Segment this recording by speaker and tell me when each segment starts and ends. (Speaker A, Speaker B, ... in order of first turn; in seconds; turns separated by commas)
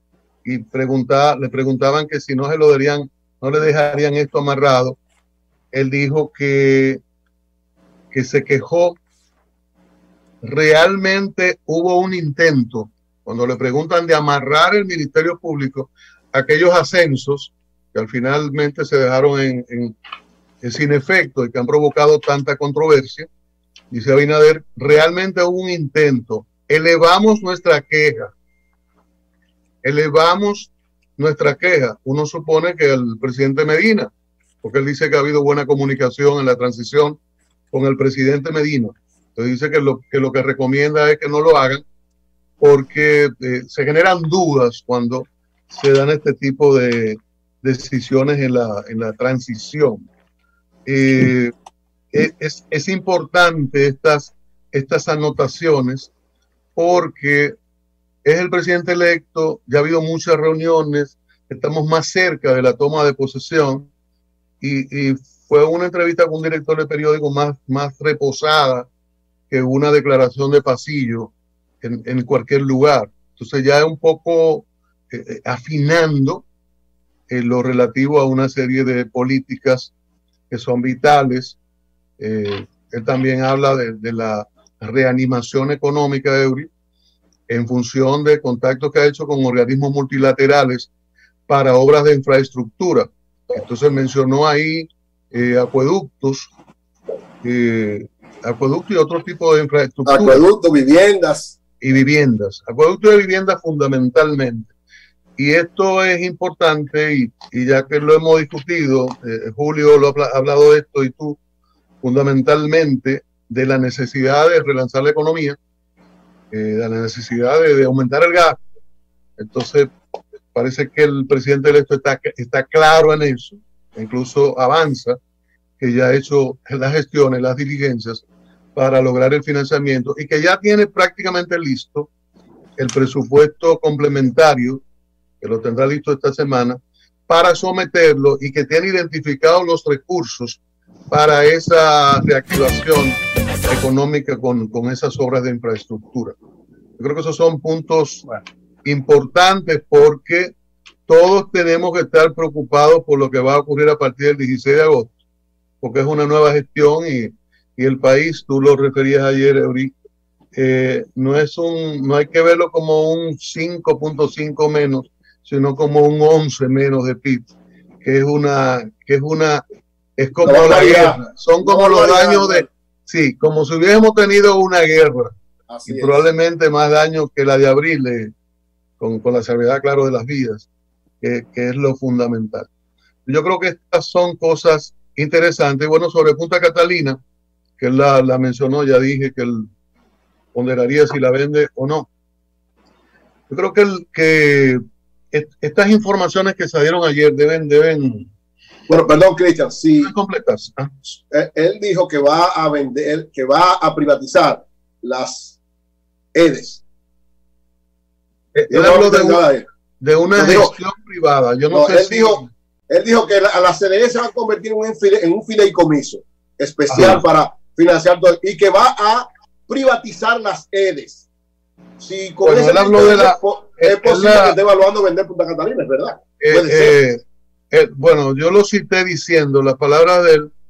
Speaker A: 0.4-5.0, Speaker A: 5.7-7.0, Speaker A: 8.1-9.0, Speaker A: 10.4-19.9, Speaker A: 20.6-23.3, Speaker A: 23.9-28.3, Speaker A: 29.8-34.1, Speaker A: 34.6-37.2, Speaker A: 37.7-41.8, Speaker A: 42.6-50.1, Speaker A: 50.9-51.5, Speaker A: 52.1-56.1, Speaker A: 56.8-57.5, Speaker A: 58.2-63.9, Speaker A: 64.6-68.9, Speaker A: 69.5-76.4, Speaker A: 77.3-79.9, Speaker A: 80.5-81.6, Speaker A: 82.2-86.7, Speaker A: 87.5-90.9, Speaker A: 91.5-96.5, Speaker A: 97.4-100.4, Speaker B: 100.0-101.6, Speaker A: 101.8-104.7, Speaker A: 105.4-111.4, Speaker A: 112.0-115.6, Speaker A: 116.5-118.6, Speaker A: 119.4-119.9, Speaker A: 120.5-125.2, Speaker A: 125.8-128.2, Speaker A: 128.8-132.1, Speaker A: 132.8-134.8, Speaker A: 135.4-146.3, Speaker A: 147.0-148.3, Speaker A: 148.8-150.5, Speaker A: 151.1-155.1, Speaker A: 155.8-159.9, Speaker A: 160.5-167.5, Speaker A: 168.0-169.6, Speaker A: 170.2-175.3, Speaker B: 170.4-172.7, Speaker B: 175.7-176.2, Speaker A: 175.8-178.3, Speaker A: 179.0-180.7, Speaker A: 181.2-182.7, Speaker A: 183.2-187.2, Speaker A: 187.8-189.7, Speaker A: 190.5-192.1, Speaker A: 193.5-198.3, Speaker B: 198.9-200.1, Speaker A: 200.0-201.1, Speaker B: 201.3-205.6, Speaker B: 206.3-206.8, Speaker A: 208.5-209.4, Speaker B: 208.7-209.6, Speaker A: 210.0-212.5, Speaker B: 210.3-210.7, Speaker B: 211.7-221.2, Speaker A: 216.9-217.2, Speaker B: 222.0-227.0, Speaker A: 222.4-224.6, Speaker A: 226.4-230.5